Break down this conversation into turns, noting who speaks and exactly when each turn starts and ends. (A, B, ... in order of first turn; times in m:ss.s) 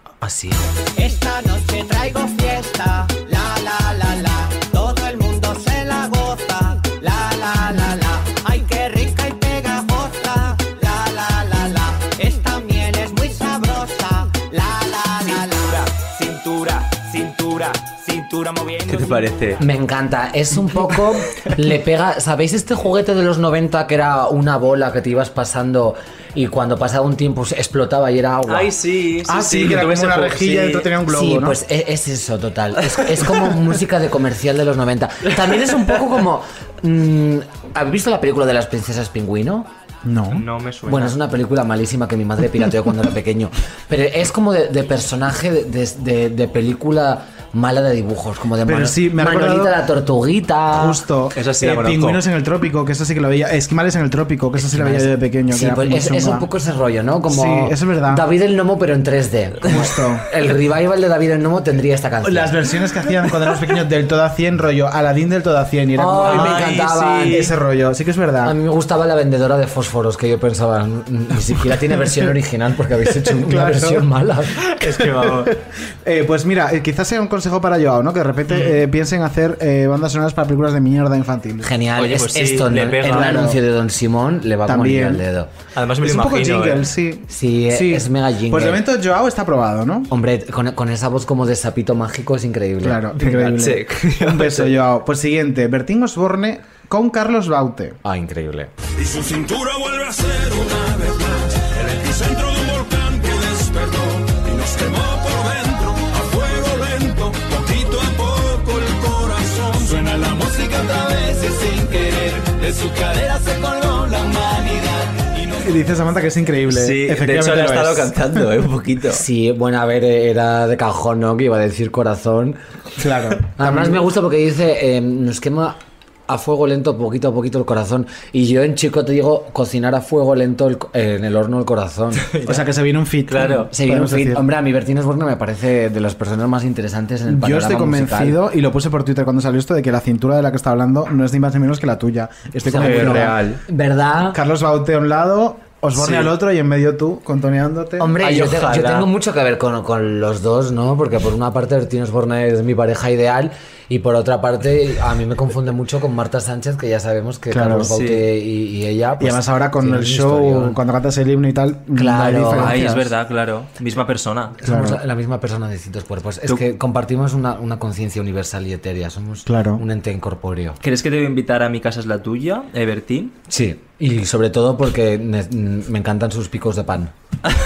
0:00.2-0:00.7 A
0:01.0-0:19.1 B
0:18.9-0:19.6 C
0:19.6-0:28.7 A
0:28.5-0:30.9 C
0:29.2-0:31.6 D
0:31.1-0:39.7 A
0:40.0-0:40.4 D
0:40.3-0:41.2 C
0:40.8-0:51.0 A
0:48.6-0:49.8 D
0:50.7-0:56.5 D
0:51.4-0:52.2 C
0:54.6-1:02.5 A
0:57.3-0:58.2 D
0:59.6-1:00.2 D
1:02.2-1:06.8 D
1:06.0-1:07.4 A
1:06.2-1:07.5 C
1:07.3-1:08.5 D
1:08.4-1:14.6 A
1:13.2-1:14.1 D
1:14.7-1:15.5 C
1:14.8-1:21.8 D
1:18.5-1:18.8 C
1:21.6-1:25.5 A
1:22.0-1:23.4 C
1:23.0-1:23.6 D
1:24.6-1:25.2 D
1:25.7-1:26.8 C
1:26.0-1:30.1 D
1:27.3-1:28.8 A
1:30.1-1:33.7 A
1:32.8-1:38.0 D
1:33.6-1:34.7 C
1:38.0-1:38.7 A
1:39.0-1:55.7 E
1:55.6-1:58.4 D
1:56.7-1:59.2 C
1:59.1-2:02.6 A
2:03.0-2:04.0 D
2:03.6-2:05.8 A
2:06.3-2:12.3 A
2:12.3-2:12.7 C
2:12.4-2:14.4 D
2:13.3-2:13.7 C
2:13.7-2:18.4 A
2:17.3-2:23.4 D
2:22.6-2:24.4 A
2:22.7-2:23.6 C
2:24.3-2:28.2 D
2:26.0-2:26.3 C
2:28.0-2:40.8 A
2:28.2-2:29.1 C
2:37.5-2:37.9 D
2:37.9-2:38.2 C
2:39.2-2:43.1 D
2:41.9-2:42.8 A
2:42.6-2:44.6 C
2:44.6-2:45.0 D
2:44.6-2:50.8 A
2:49.4-2:49.8 D
2:50.8-2:53.3 C
2:53.5-2:57.1 A